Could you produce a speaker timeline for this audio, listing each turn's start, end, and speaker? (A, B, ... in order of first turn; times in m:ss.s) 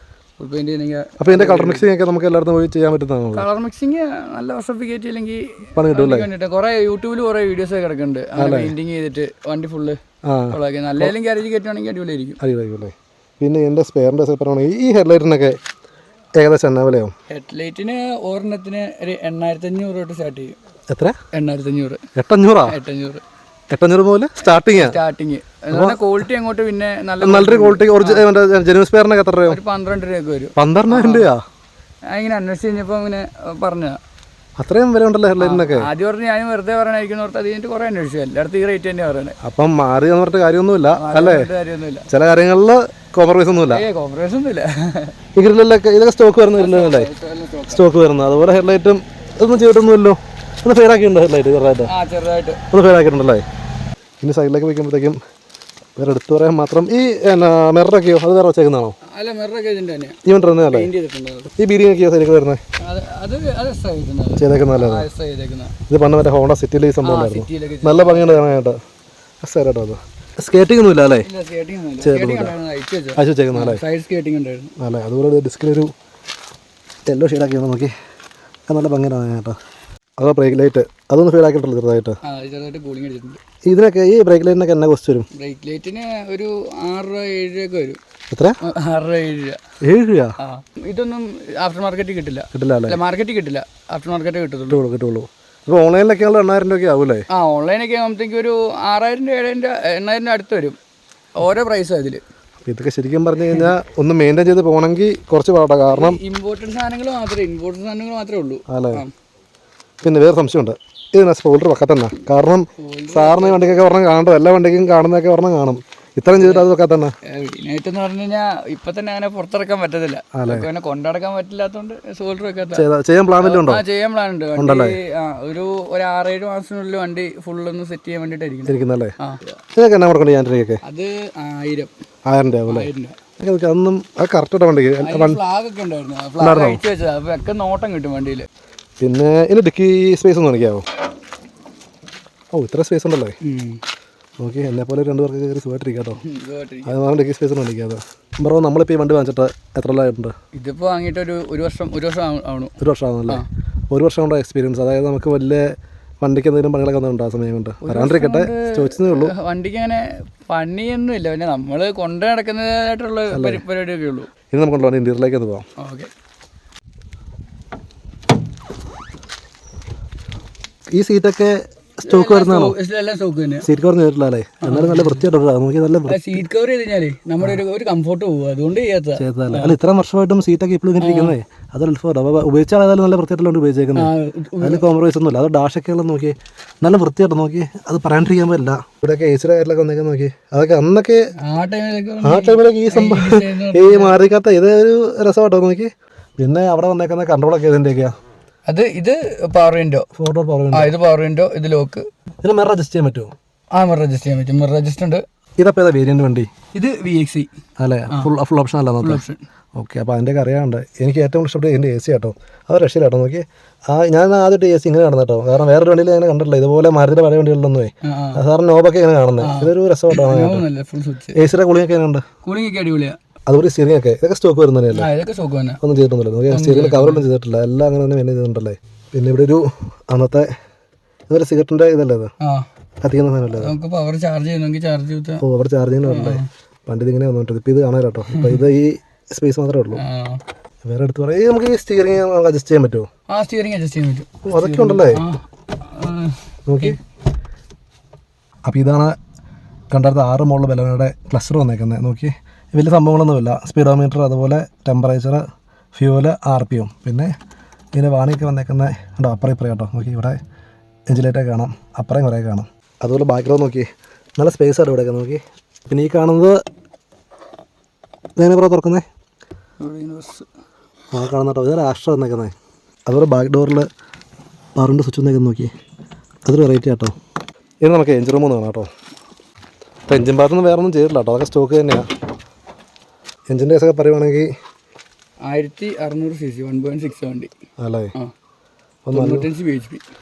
0:00.4-0:01.9 A
0:01.2-0:03.5 B
0:03.3-0:10.0 A
0:05.8-0:06.3 B
0:08.4-0:08.7 B
0:10.3-0:11.1 B
0:10.5-0:12.4 A
0:12.4-0:15.6 B
0:16.4-0:17.1 B
0:17.3-0:20.6 A
0:20.9-0:21.2 B
0:21.3-0:22.0 A
0:22.2-0:22.8 B
0:22.7-0:23.2 A
0:23.7-0:25.0 B
0:24.6-0:28.2 A
0:25.7-0:26.1 B
0:27.2-0:29.6 B
0:29.5-0:31.3 A
0:30.6-0:31.4 B
0:32.1-0:34.0 A
0:34.6-0:35.9 B
0:35.4-0:39.4 A
0:39.4-0:41.5 B
0:41.0-0:42.1 A
0:42.1-0:43.8 B
0:43.5-0:45.2 A
0:45.4-0:47.1 B
0:46.5-0:47.8 A
0:47.7-0:51.9 B
0:51.8-0:52.6 A
0:52.7-0:53.4 B
0:54.2-0:55.2 B
0:56.0-0:59.0 B
0:59.1-1:01.5 A
1:00.3-1:00.9 B
1:01.6-1:02.6 B
1:02.8-1:05.7 A
1:04.4-1:05.1 B
1:05.9-1:08.8 B
1:07.0-1:08.6 A
1:09.4-1:11.3 B
1:11.2-1:14.8 A
1:12.0-1:12.5 B
1:13.2-1:13.8 B
1:14.8-1:15.9 B
1:17.1-1:17.9 B
1:18.7-1:19.6 B
1:20.2-1:22.2 B
1:22.2-1:23.4 A
1:23.7-1:25.3 B
1:25.4-1:28.0 A
1:28.3-1:28.6 B
1:28.6-1:29.6 A
1:29.8-1:30.4 B
1:30.4-1:34.8 A
1:32.5-1:33.0 B
1:34.7-1:37.3 B
1:37.3-1:40.8 A
1:41.4-1:42.2 A
1:42.6-1:46.2 B
1:45.9-1:49.1 A
1:48.7-1:49.0 B
1:50.0-1:57.1 B
1:52.8-1:53.9 A
1:56.4-1:56.7 A
1:57.2-2:02.9 A
2:00.3-2:00.7 B
2:02.7-2:03.8 B
2:03.4-2:09.6 A
2:04.6-2:05.0 B
2:08.7-2:09.1 B
2:09.8-2:10.8 B
2:10.8-2:11.9 A
2:12.3-2:15.4 B
2:12.7-2:13.2 A
2:15.0-2:18.5 A
2:16.4-2:16.8 B
2:19.0-2:20.8 B
2:22.5-2:23.4 B
2:23.4-2:23.8 A
2:24.4-2:26.2 B
2:26.2-2:27.0 A
2:26.8-2:30.3 B
2:30.5-2:32.8 A
2:32.8-2:39.3 B
2:37.8-2:44.3 A
2:43.3-2:43.6 B
2:44.5-2:45.7 B
2:45.8-2:46.1 A
2:50.9-2:52.8 B
2:52.0-2:53.7 A
2:53.6-2:56.4 B
2:54.6-2:55.2 A
2:56.1-2:59.8 A
2:59.2-3:11.3 B
3:01.0-3:01.4 A
3:04.0-3:04.8 A
3:11.4-3:14.3 A
3:12.2-3:18.1 B
3:18.7-3:20.1 A
3:20.2-3:20.9 B
3:20.7-3:22.1 A
3:22.4-3:23.3 B
3:23.7-3:25.2 A
3:25.6-3:26.5 B
3:26.7-3:27.5 A
3:27.8-3:29.2 B
3:29.0-3:29.4 A
3:29.8-3:40.6 B
3:38.0-3:38.4 A
3:39.4-3:41.4 A
3:41.4-3:42.2 B
3:42.4-3:43.2 A
3:43.5-3:45.1 B
3:44.9-3:45.8 A
3:45.8-3:50.5 B
3:46.5-3:47.2 A
3:51.3-3:52.3 B
3:52.4-3:52.7 A
3:53.0-3:53.7 B
3:53.5-3:55.4 A
3:55.4-4:00.0 B
3:56.0-3:56.5 A
3:58.3-3:58.6 A
4:00.0-4:00.4 A
4:00.8-4:03.1 B
4:03.3-4:07.0 A
4:04.4-4:05.2 B
4:06.7-4:07.0 B
4:08.7-4:09.2 B
4:09.9-4:15.4 B
4:16.0-4:17.3 B
4:17.9-4:20.4 B
4:21.1-4:26.6 B
4:28.4-4:29.0 B
4:29.8-4:30.5 A
4:31.1-4:32.5 B
4:33.1-4:33.9 B
4:34.8-4:35.7 B
4:36.5-4:37.1 B
4:37.8-4:38.9 B
4:40.1-4:42.1 B
4:43.5-4:44.5 B
4:45.5-4:47.5 A
4:47.8-4:48.1 B
4:49.1-4:49.5 B
4:49.1-4:50.0 A